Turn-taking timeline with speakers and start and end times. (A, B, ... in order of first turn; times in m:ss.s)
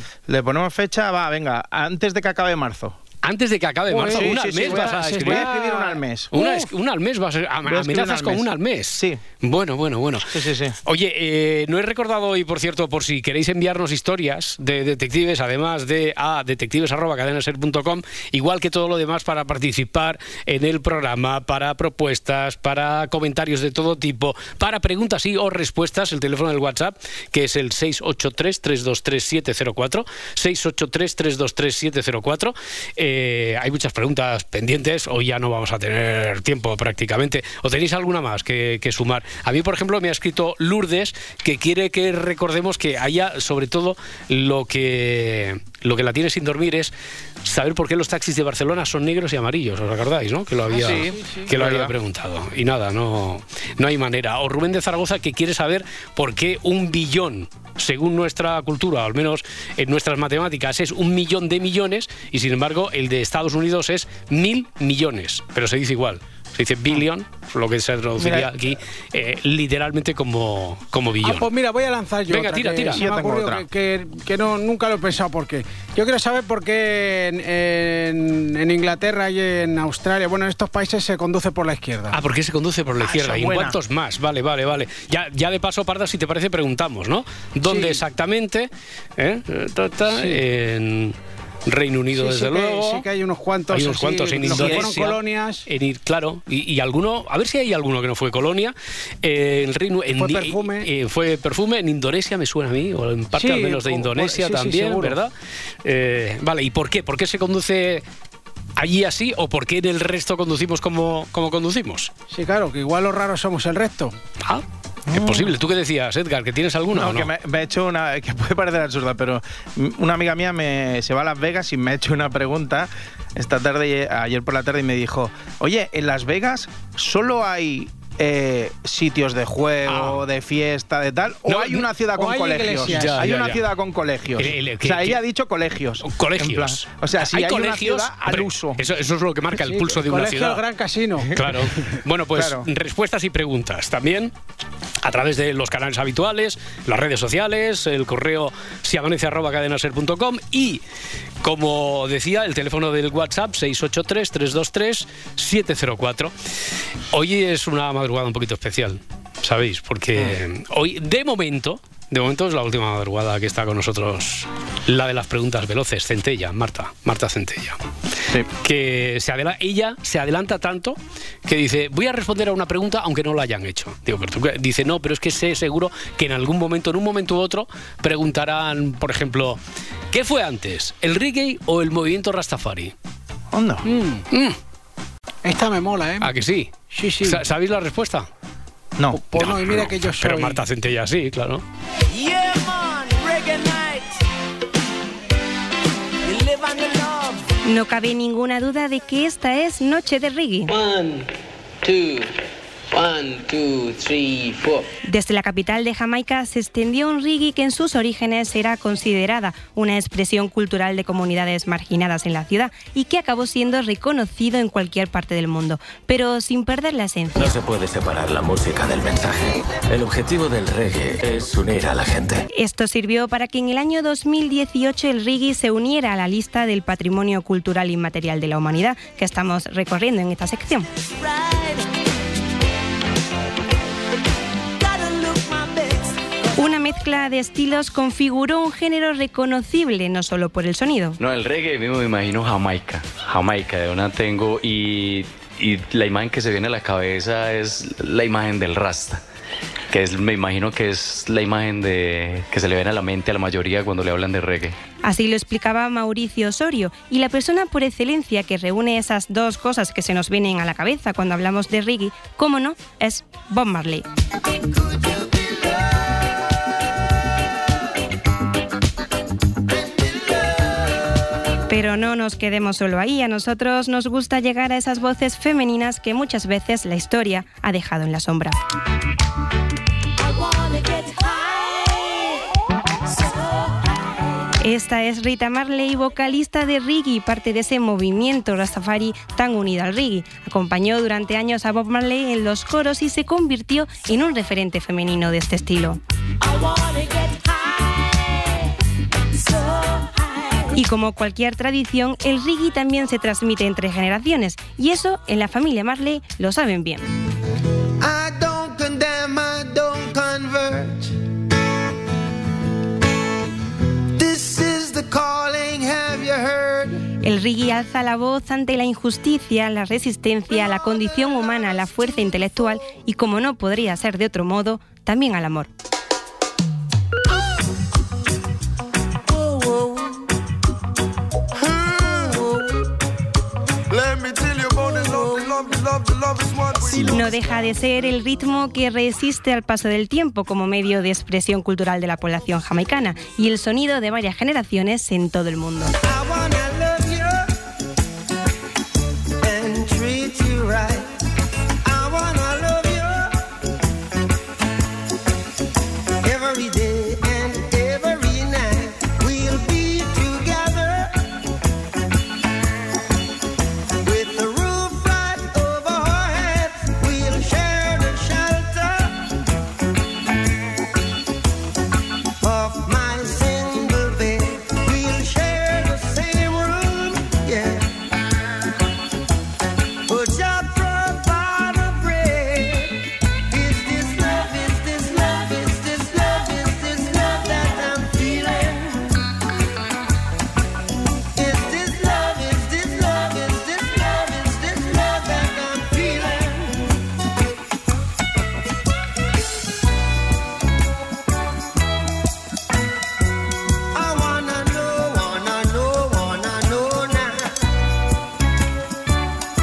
0:00.3-0:03.0 A
0:03.2-0:05.5 B
0:03.9-0:06.7 C
0:04.0-0:06.3 A
0:06.3-0:10.3 B
0:07.6-0:09.2 A
0:10.3-0:10.8 A
0:10.8-1:11.5 B
0:50.7-0:51.5 C
0:50.8-0:51.9 A
1:08.2-1:08.5 A
1:11.2-1:22.2 C
1:12.3-1:13.0 B
1:12.9-1:13.6 A
1:22.1-1:31.1 B
1:23.0-1:23.8 A
1:27.7-1:28.0 C
1:30.1-1:30.4 C
1:31.6-1:33.0 B
1:32.2-1:35.6 C
1:33.7-1:45.3 B
1:34.4-1:35.1 A
1:40.2-1:40.9 C
1:43.3-1:45.2 C
1:45.8-1:48.0 B
1:48.8-1:52.1 B
1:52.3-1:54.1 C
1:54.4-1:57.3 B
1:55.1-1:55.5 A
1:56.9-2:18.8 A
2:09.9-2:10.2 B
2:11.5-2:11.9 B
2:12.2-2:13.2 C
2:12.8-2:13.6 B
2:14.4-2:15.2 B
2:16.0-2:20.6 B
2:19.6-2:21.3 C
2:21.3-2:24.3 B
2:22.3-2:22.7 A
2:25.0-2:30.8 B
2:31.4-2:36.3 B
2:37.1-2:47.8 B
2:48.5-2:59.6 B
3:00.1-3:02.9 B
3:03.5-3:03.8 A
3:03.8-3:04.2 C
3:04.3-3:04.6 B
3:05.4-3:06.3 C
3:06.2-3:08.3 B
3:06.9-3:07.4 C
3:09.1-3:10.6 C
3:09.4-3:11.6 B
3:12.1-3:14.0 D
3:13.4-3:13.8 E
3:16.3-3:17.4 D
3:17.6-3:20.8 F
3:20.7-3:21.3 E
3:21.8-3:22.3 E
3:22.9-3:24.9 E
3:25.0-3:37.4 F
3:37.4-3:42.4 G
3:42.5-3:50.9 F
3:51.2-3:51.8 D
3:54.8-3:56.2 D
3:56.6-4:01.2 F
4:01.2-4:09.2 H
4:09.9-4:14.8 H
4:15.0-4:24.0 F
4:24.6-4:26.2 D
4:29.7-4:31.1 D
4:31.7-4:38.6 F
4:40.6-4:41.7 D
4:44.6-4:56.0 F
4:56.6-4:57.4 D
4:59.6-5:00.1 D
5:00.7-5:07.1 F
5:08.0-5:11.2 D
5:14.1-5:17.0 D
5:17.2-5:25.7 F
5:29.6-5:30.1 D
5:31.8-5:32.7 D
5:34.0-5:37.3 D
5:37.0-5:45.9 F
5:46.0-5:47.5 D
5:49.4-5:51.1 D
5:51.8-5:53.4 D
5:56.2-6:01.2 D
6:04.0-6:09.2 D
6:12.4-6:17.9 D
6:20.1-6:29.1 D
6:31.3-6:37.0 D
6:43.9-6:47.5 D